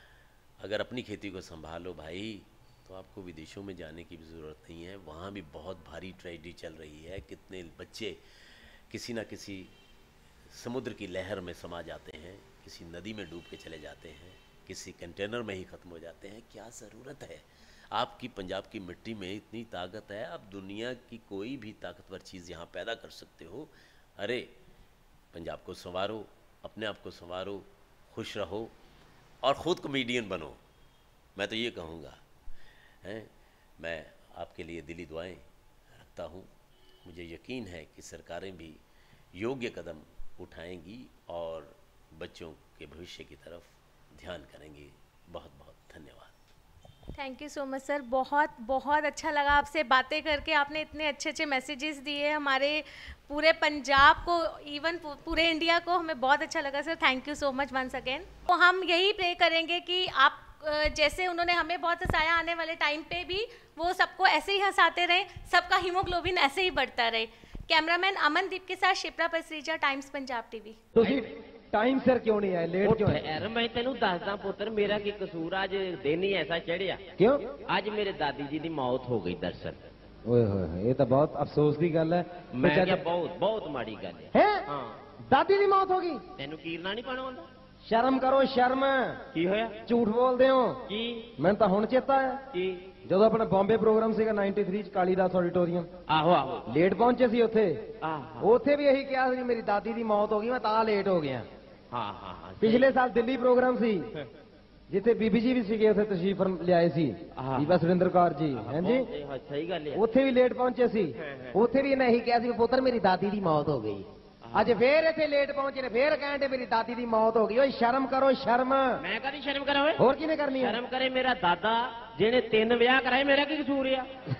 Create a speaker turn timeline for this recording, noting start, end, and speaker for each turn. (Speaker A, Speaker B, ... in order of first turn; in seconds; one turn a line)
Speaker A: 0.6-8.2
Speaker A: 8.9-9.7
Speaker A: 10.5-24.5
Speaker A: 25.3-28.7
Speaker A: 29.4-30.6
Speaker A: 31.4-32.2
Speaker A: 33.0-36.5
Speaker A: 37.0-38.8
Speaker A: 39.3-46.4
Speaker B: 47.1-70.8
Speaker C: 70.9-73.3
Speaker D: 71.0-71.2
Speaker D: 72.8-77.1
Speaker C: 77.2-77.5
Speaker D: 77.7-79.9
Speaker C: 80.2-83.0
Speaker D: 82.5-85.0
Speaker C: 84.3-84.7
Speaker C: 85.3-86.2
Speaker D: 86.4-87.5
Speaker C: 87.8-89.2
Speaker D: 89.3-89.8
Speaker C: 89.9-90.8
Speaker D: 90.9-91.3
Speaker C: 91.4-92.4
Speaker D: 92.5-92.9
Speaker C: 93.0-95.9
Speaker D: 96.1-96.7
Speaker C: 96.7-97.9
Speaker D: 98.0-98.5
Speaker C: 98.4-101.5
Speaker D: 101.9-102.9
Speaker C: 102.6-104.1
Speaker C: 104.9-109.1
Speaker D: 107.3-107.8
Speaker D: 108.5-110.0
Speaker C: 109.9-119.0
Speaker D: 111.2-111.6
Speaker D: 114.4-114.8
Speaker D: 119.0-120.0
Speaker C: 120.0-120.8
Speaker D: 120.6-124.1